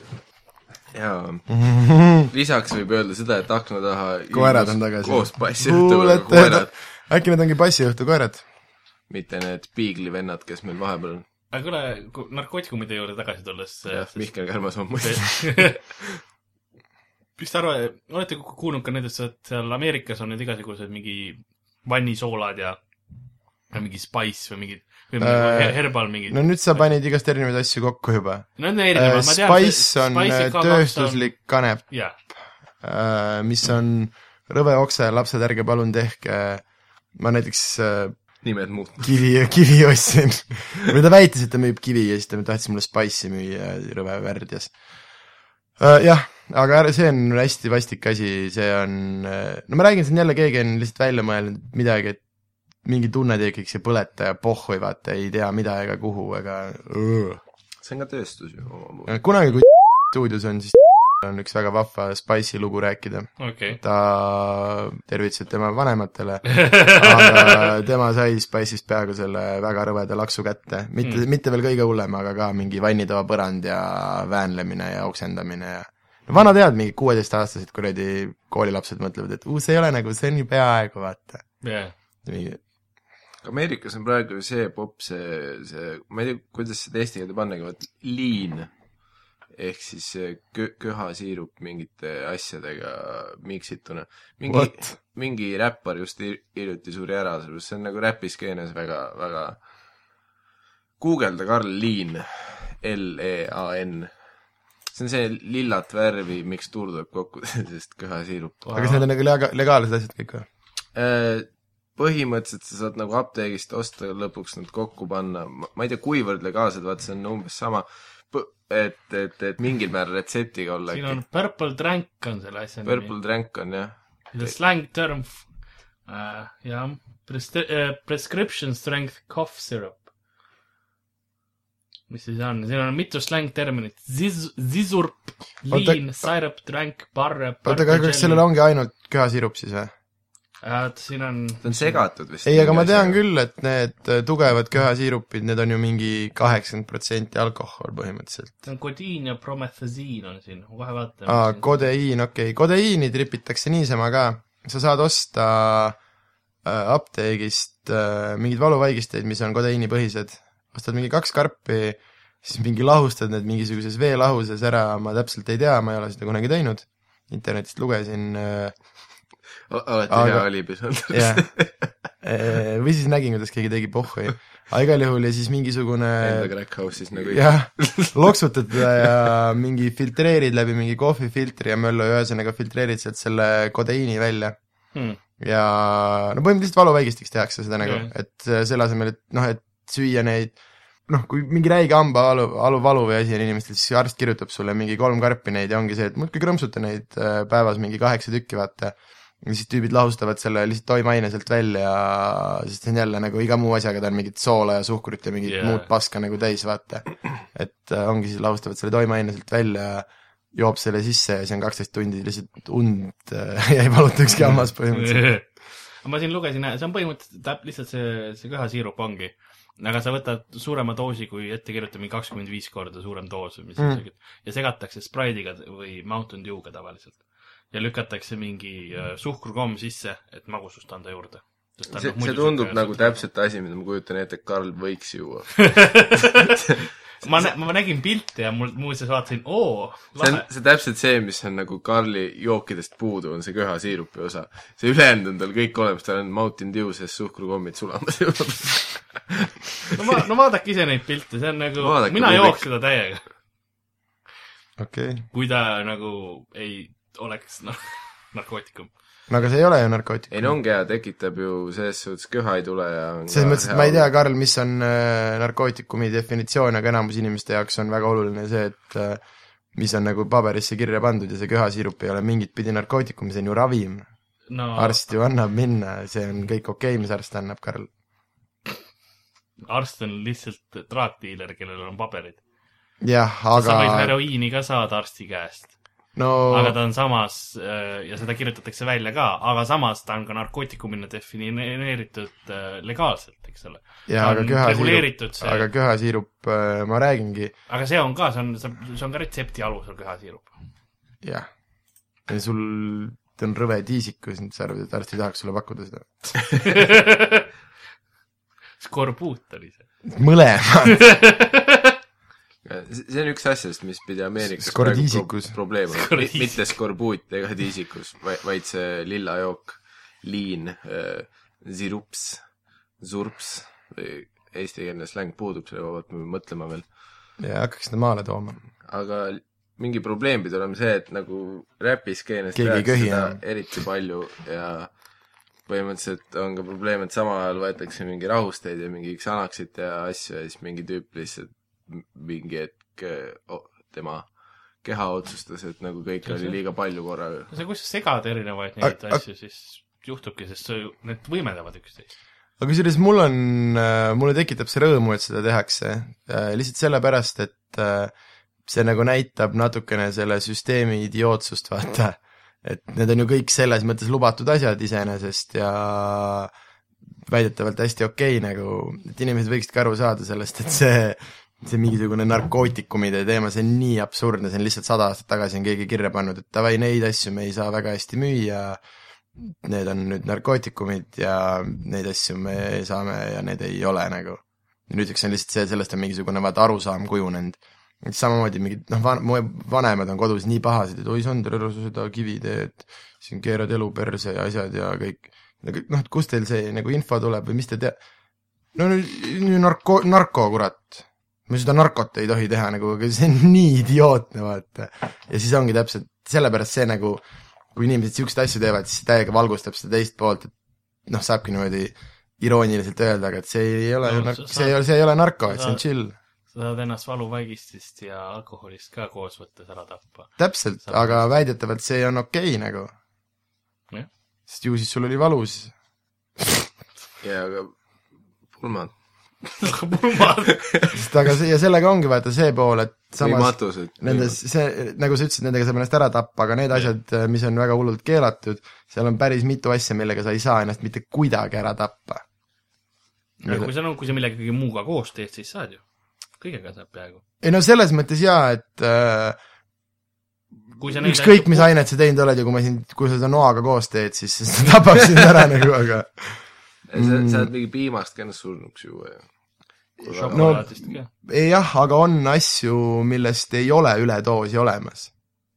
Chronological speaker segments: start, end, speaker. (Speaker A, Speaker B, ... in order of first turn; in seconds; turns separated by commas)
Speaker A: 0.9-1.6, Speaker B: 1.5-2.3, Speaker A: 2.3-6.7, Speaker B: 4.3-8.4, Speaker A: 9.1-11.2, Speaker C: 11.5-14.3, Speaker A: 13.9-16.2, Speaker C: 15.0-15.8, Speaker C: 17.4-22.8, Speaker C: 23.7-26.8, Speaker B: 25.2-31.9, Speaker C: 28.6-31.3, Speaker C: 31.9-32.1, Speaker B: 32.8-38.4, Speaker A: 38.4-39.2, Speaker B: 39.0-44.8, Speaker B: 45.8-52.2, Speaker B: 52.8-57.4, Speaker A: 57.8-59.2, Speaker B: 59.1-81.5, Speaker C: 63.4-63.8, Speaker C: 66.5-67.7, Speaker C: 81.6-81.9, Speaker B: 82.2-82.6, Speaker A: 83.4-88.7, Speaker A: 89.5-99.6, Speaker B: 94.5-94.9, Speaker A: 101.0-104.1, Speaker A: 104.9-108.7, Speaker C: 108.7-109.0, Speaker B: 108.7-110.5, Speaker A: 110.9-121.2, Speaker C: 120.9-123.1, Speaker A: 122.8-124.5, Speaker C: 124.3-125.5, Speaker C: 126.0-130.0, Speaker C: 132.1-138.4, Speaker B: 135.7-136.0, Speaker B: 137.6-139.9, Speaker C: 140.6-141.9, Speaker A: 141.6-143.2, Speaker B: 142.4-148.6, Speaker C: 148.6-151.8, Speaker B: 151.3-156.0, Speaker B: 156.6-168.7, Speaker A: 169.7-171.9, Speaker B: 170.1-171.6, Speaker B: 172.2-176.5, Speaker A: 176.2-178.3, Speaker B: 177.2-184.6, Speaker C: 184.9-185.2, Speaker B: 185.4-190.6, Speaker C: 187.8-188.1, Speaker B: 191.1-215.4, Speaker C: 205.4-205.9, Speaker C: 214.9-215.5, Speaker C: 216.0-233.2, Speaker A: 231.9-236.0, Speaker C: 235.6-236.6, Speaker A: 236.6-237.5, Speaker C: 237.2-240.5, Speaker A: 240.2-250.1, Speaker C: 249.9-253.2, Speaker A: 251.8-252.7, Speaker B: 254.8-255.2, Speaker C: 255.3-258.9, Speaker B: 259.3-260.5, Speaker A: 260.3-264.1, Speaker B: 263.3-269.2, Speaker B: 269.7-274.1, Speaker C: 274.5-275.0, Speaker B: 274.8-277.9, Speaker C: 279.6-282.4, Speaker B: 283.0-284.1, Speaker C: 283.5-285.7, Speaker B: 286.1-286.7, Speaker C: 286.5-295.7, Speaker B: 294.1-297.5, Speaker C: 297.7-300.5, Speaker B: 301.2-301.5, Speaker B: 302.3-306.4, Speaker C: 306.6-307.5, Speaker C: 308.8-309.8, Speaker B: 310.1-311.0, Speaker C: 310.9-311.9, Speaker A: 312.6-322.4, Speaker B: 314.4-315.5, Speaker C: 315.9-316.6, Speaker A: 323.0-326.8, Speaker B: 327.4-328.6, Speaker A: 328.8-334.9, Speaker B: 332.5-333.4, Speaker A: 335.6-344.3, Speaker A: 344.8-347.5, Speaker C: 346.2-346.6, Speaker C: 347.5-352.1, Speaker B: 348.8-349.2, Speaker B: 352.6-358.1, Speaker B: 358.6-366.5, Speaker B: 367.3-378.8, Speaker B: 379.4-398.0, Speaker B: 398.7-407.2, Speaker B: 407.7-410.5, Speaker B: 411.1-416.1, Speaker C: 414.0-414.8, Speaker C: 415.5-415.8, Speaker C: 416.5-421.2, Speaker B: 420.4-422.9, Speaker B: 424.5-425.7, Speaker B: 426.4-426.7, Speaker A: 427.2-427.7, Speaker A: 428.5-429.7, Speaker C: 429.6-430.6, Speaker A: 430.5-431.0, Speaker B: 430.9-442.2, Speaker A: 433.2-434.4, Speaker C: 443.4-445.8, Speaker B: 443.4-443.7, Speaker C: 446.4-447.2, Speaker B: 447.4-449.4, Speaker C: 450.8-451.7, Speaker B: 451.0-456.4, Speaker A: 456.9-459.3, Speaker B: 456.9-457.5, Speaker A: 460.0-460.7, Speaker C: 460.0-461.1, Speaker B: 460.3-465.1